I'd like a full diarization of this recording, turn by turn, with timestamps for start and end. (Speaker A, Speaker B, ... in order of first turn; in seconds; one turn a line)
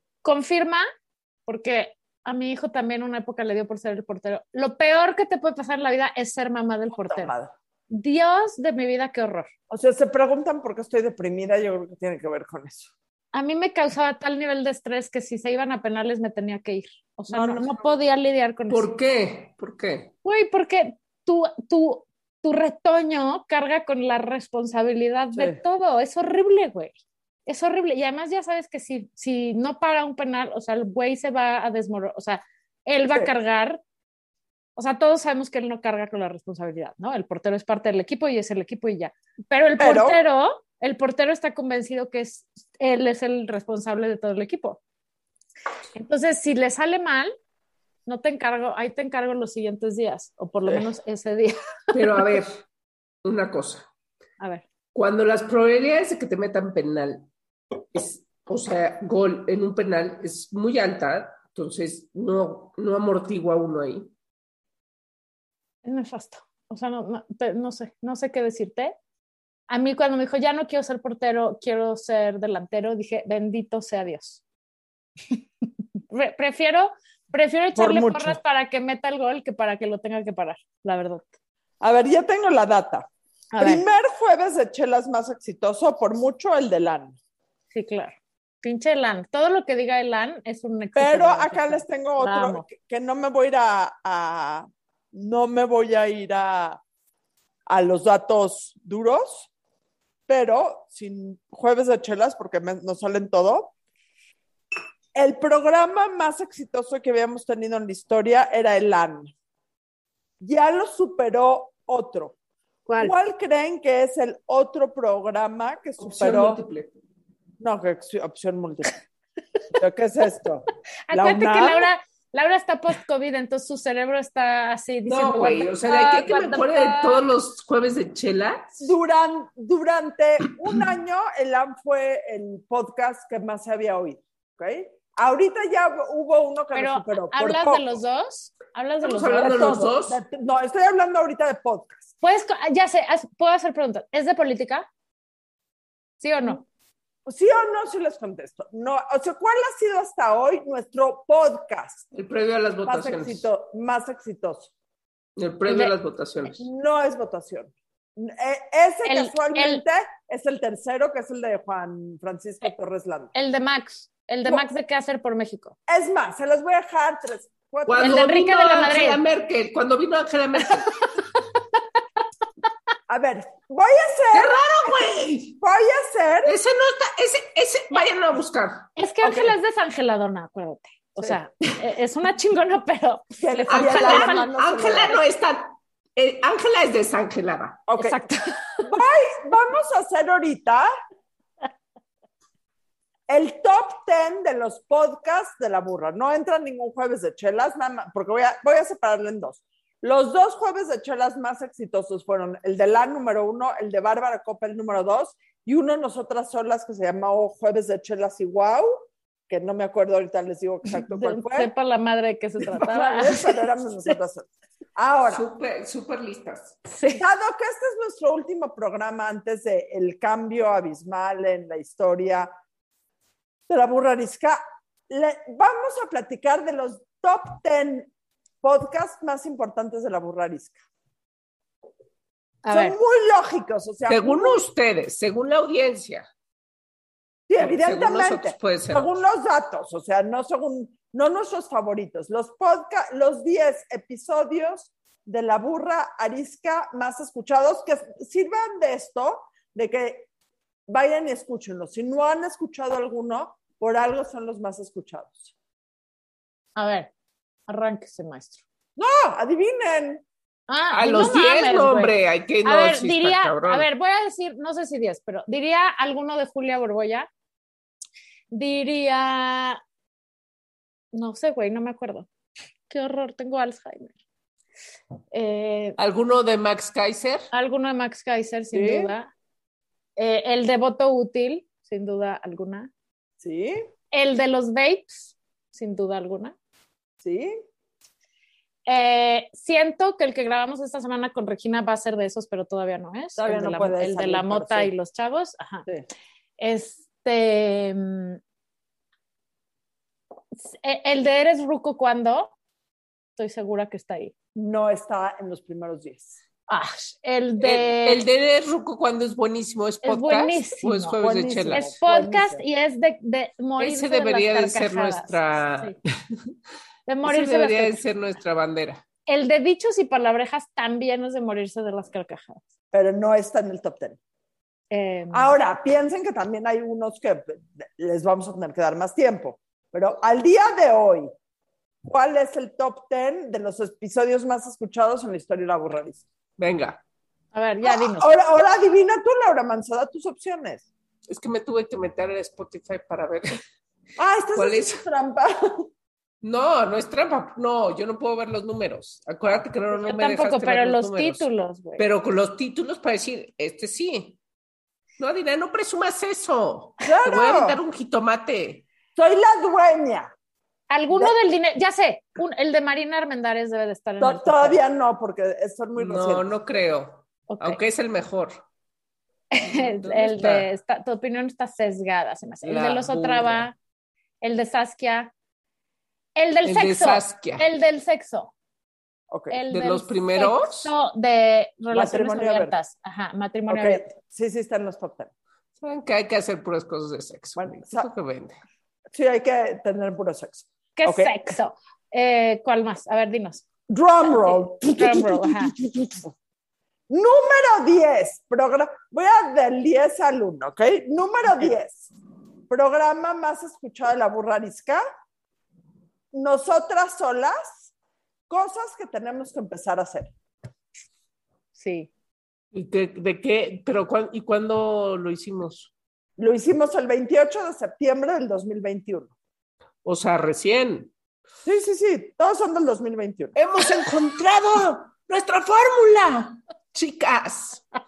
Speaker A: 0.2-0.8
Speaker A: 1.4-7.3
Speaker B: 6.9-7.5
Speaker A: 7.9-9.5
Speaker B: 9.7-12.9
Speaker A: 13.3-18.9
Speaker B: 17.3-17.8
Speaker C: 18.7-20.1
Speaker A: 20.2-26.9
Speaker A: 27.4-33.8
Speaker A: 34.8-44.8
Speaker B: 39.8-40.2
Speaker A: 45.9-47.3
Speaker A: 48.0-52.2
Speaker C: 51.9-52.6
Speaker C: 53.2-53.9
Speaker A: 54.4-54.6
Speaker C: 54.9-57.3
Speaker C: 57.9-64.1
Speaker A: 65.8-68.9
Speaker A: 69.7-74.4
Speaker A: 76.1-81.2
Speaker B: 77.7-78.4
Speaker B: 81.8-83.1
Speaker A: 83.5-83.8
Speaker B: 83.6-87.2
Speaker A: 87.7-92.6
Speaker B: 91.0-96.8
Speaker B: 97.7-99.5
Speaker B: 100.3-103.7
Speaker B: 105.1-109.3
Speaker B: 110.4-112.3
Speaker A: 112.9-113.1
Speaker B: 113.0-116.6
Speaker C: 116.0-116.9
Speaker B: 117.6-119.0
Speaker B: 119.7-121.9
Speaker A: 121.1-127.2
Speaker C: 125.0-128.8
Speaker B: 128.8-138.0
Speaker A: 136.7-139.9
Speaker C: 139.0-140.2
Speaker B: 139.4-142.1
Speaker A: 142.2-144.8
Speaker A: 146.2-146.6
Speaker B: 147.2-152.0
Speaker C: 152.1-153.4
Speaker B: 152.8-154.7
Speaker C: 155.4-156.6
Speaker A: 155.7-155.9
Speaker B: 156.5-163.3
Speaker A: 159.0-159.8
Speaker A: 163.3-165.7
Speaker B: 165.9-168.3
Speaker C: 167.9-171.2
Speaker A: 168.0-169.2
Speaker B: 173.1-174.6
Speaker C: 174.3-175.6
Speaker B: 175.6-176.6
Speaker C: 176.4-178.9
Speaker A: 178.9-184.5
Speaker B: 179.2-179.5
Speaker B: 183.4-185.2
Speaker C: 183.7-187.8
Speaker B: 187.9-188.2
Speaker A: 188.0-188.9
Speaker B: 188.8-190.9
Speaker B: 193.3-211.7
Speaker A: 211.0-214.2
Speaker B: 212.6-215.4
Speaker C: 215.3-216.8
Speaker A: 216.8-217.2
Speaker B: 217.1-222.5
Speaker B: 223.7-228.1
Speaker B: 228.6-230.8
Speaker A: 232.6-232.9
Speaker B: 232.7-234.7
Speaker C: 234.1-236.2
Speaker B: 237.5-250.3
Speaker C: 237.6-239.1
Speaker B: 250.9-255.5
Speaker A: 256.8-257.1
Speaker A: 257.7-258.6
Speaker B: 258.9-260.2
Speaker A: 260.7-262.1
Speaker C: 260.9-263.9
Speaker A: 262.6-267.3
Speaker A: 268.5-269.8
Speaker A: 271.1-272.3
Speaker A: 272.9-274.1
Speaker A: 275.3-276.0
Speaker C: 276.0-277.5
Speaker A: 277.5-279.3
Speaker B: 278.7-279.1
Speaker A: 280.2-282.9
Speaker B: 283.4-283.8
Speaker A: 284.1-286.5
Speaker B: 287.2-287.6
Speaker A: 288.9-295.9
Speaker B: 293.4-294.9
Speaker A: 296.6-298.4
Speaker A: 300.6-302.5
Speaker A: 303.4-304.3
Speaker B: 304.5-306.4
Speaker A: 306.7-308.2
Speaker C: 307.6-311.9
Speaker A: 310.0-311.1
Speaker B: 311.1-312.6
Speaker A: 311.7-315.9
Speaker C: 313.8-316.4
Speaker A: 317.1-318.0
Speaker C: 317.2-319.0
Speaker A: 319.3-322.6
Speaker B: 322.9-324.2
Speaker A: 324.9-325.5
Speaker B: 325.3-331.3
Speaker B: 332.0-336.2
Speaker C: 336.6-337.0
Speaker A: 337.5-338.3
Speaker B: 337.8-340.9
Speaker C: 341.3-343.6
Speaker B: 344.2-345.9
Speaker C: 344.5-345.0
Speaker C: 346.4-351.4
Speaker A: 349.9-352.0
Speaker C: 352.0-354.4
Speaker C: 355.2-358.8
Speaker B: 357.0-357.8
Speaker B: 359.1-360.3
Speaker A: 360.9-364.8
Speaker B: 364.2-366.4
Speaker C: 366.0-368.6
Speaker A: 367.5-367.8
Speaker A: 369.5-373.7
Speaker C: 369.6-370.7
Speaker C: 372.6-373.7
Speaker A: 374.4-375.3
Speaker A: 376.4-378.5
Speaker C: 376.6-377.6
Speaker B: 379.3-379.6
Speaker A: 379.5-384.1
Speaker C: 379.7-380.9
Speaker B: 381.9-382.7
Speaker B: 383.7-385.3
Speaker C: 385.8-388.6
Speaker B: 387.6-388.1
Speaker B: 389.1-391.3
Speaker A: 391.0-393.6
Speaker B: 393.9-396.3
Speaker A: 394.2-395.7
Speaker B: 397.1-402.1
Speaker B: 402.7-405.0
Speaker B: 406.3-407.9
Speaker B: 408.5-410.3
Speaker A: 411.8-412.1
Speaker C: 412.7-415.9
Speaker B: 416.4-419.3
Speaker C: 420.0-421.1
Speaker B: 421.6-423.5
Speaker C: 423.5-427.8